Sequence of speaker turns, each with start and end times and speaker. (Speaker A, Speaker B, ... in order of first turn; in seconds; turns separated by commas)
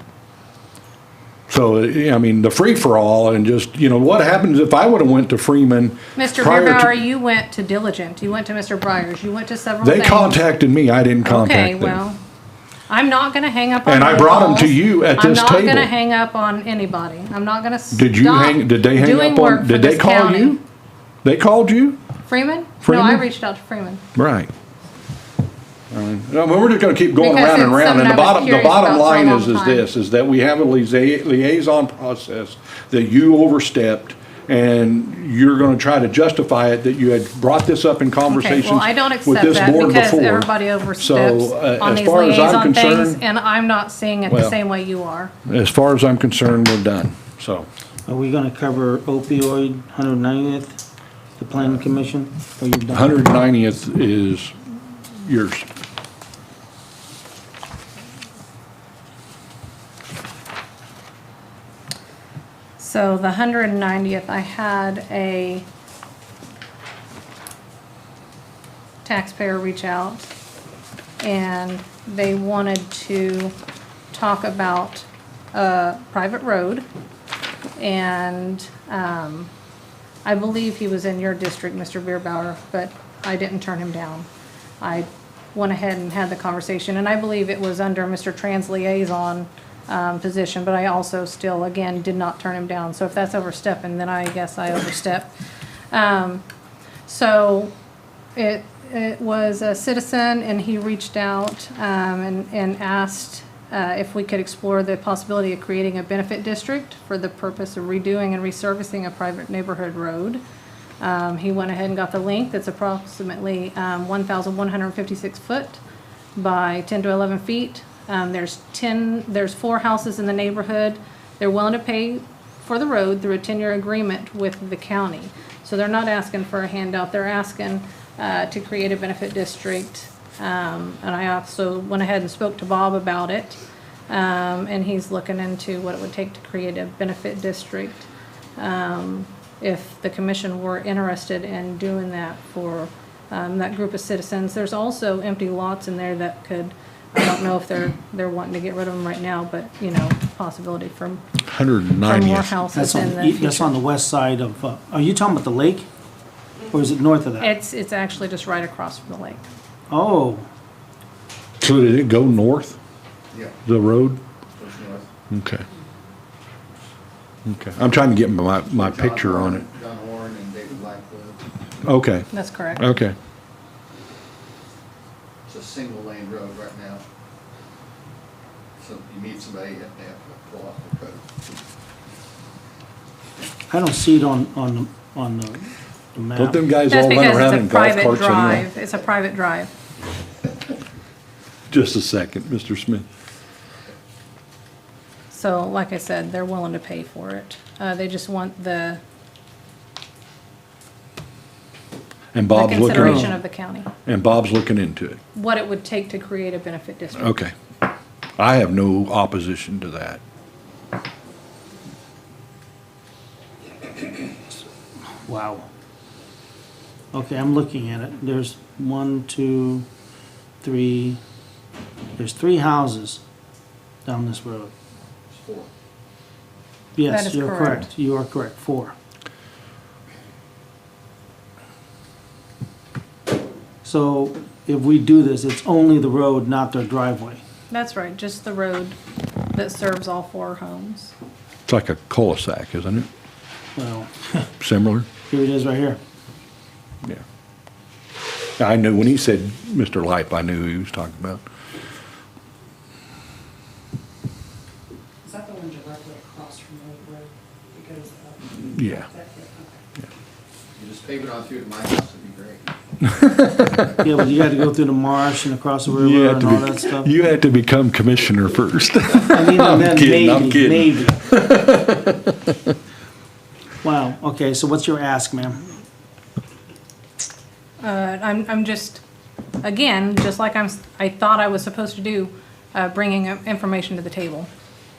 Speaker A: 1.5-7.0, Speaker B: 6.2-10.4, Speaker A: 9.8-12.0, Speaker B: 11.2-12.2, Speaker B: 12.9-20.6, Speaker A: 13.8-15.9, Speaker A: 17.9-20.6, Speaker A: 21.2-22.0, Speaker B: 22.3-24.0, Speaker A: 22.8-23.2, Speaker A: 24.1-24.5, Speaker A: 25.9-43.2, Speaker B: 27.2-29.9, Speaker B: 38.2-45.3, Speaker A: 44.3-44.5, Speaker A: 45.5-47.7, Speaker C: 48.0-50.8, Speaker C: 51.4-53.2, Speaker A: 52.9-55.7, Speaker B: 62.8-65.7, Speaker B: 69.0-70.2, Speaker B: 71.2-73.5, Speaker B: 74.1-76.9, Speaker B: 77.8-79.5, Speaker B: 80.2-84.3, Speaker B: 84.8-95.3, Speaker B: 95.9-96.4, Speaker B: 97.0-97.7, Speaker B: 98.3-110.4, Speaker B: 111.0-115.8, Speaker B: 116.4-151.3, Speaker A: 151.4-152.5, Speaker B: 152.0-153.7, Speaker C: 152.7-155.9, Speaker C: 156.7-157.5, Speaker B: 157.4-159.4, Speaker C: 159.9-160.5, Speaker A: 161.6-162.8, Speaker D: 163.3-163.6, Speaker A: 163.7-164.2, Speaker D: 164.6-165.1, Speaker A: 165.3-165.7, Speaker A: 167.5-169.6, Speaker D: 168.7-171.4, Speaker A: 171.8-173.2, Speaker B: 172.3-172.9, Speaker D: 175.5-177.0, Speaker D: 178.8-181.2, Speaker C: 183.7-186.6, Speaker A: 186.4-188.7, Speaker B: 186.9-189.7, Speaker A: 191.7-193.1, Speaker B: 195.3-199.0, Speaker A: 202.3-203.4, Speaker B: 202.5-203.9, Speaker C: 202.9-203.3, Speaker A: 204.1-205.2, Speaker B: 205.3-207.4, Speaker A: 207.2-207.5, Speaker A: 208.4-210.2, Speaker C: 215.3-215.7, Speaker C: 217.1-219.9, Speaker C: 220.6-221.2, Speaker C: 222.2-223.2, Speaker C: 224.1-224.7, Speaker D: 225.3-225.7, Speaker C: 226.9-229.0, Speaker B: 227.1-227.9, Speaker C: 233.8-237.4, Speaker B: 237.7-239.0, Speaker B: 239.5-241.2, Speaker A: 241.7-243.1, Speaker C: 243.8-244.5, Speaker A: 244.6-245.1, Speaker C: 245.3-246.0, Speaker A: 248.6-251.4, Speaker E: 255.2-259.8, Speaker A: 258.7-259.1, Speaker D: 260.8-262.7, Speaker A: 263.1-263.9, Speaker C: 264.0-267.1, Speaker A: 265.9-272.5, Speaker C: 269.3-271.2, Speaker C: 273.8-275.7, Speaker B: 277.8-279.0, Speaker B: 279.6-284.5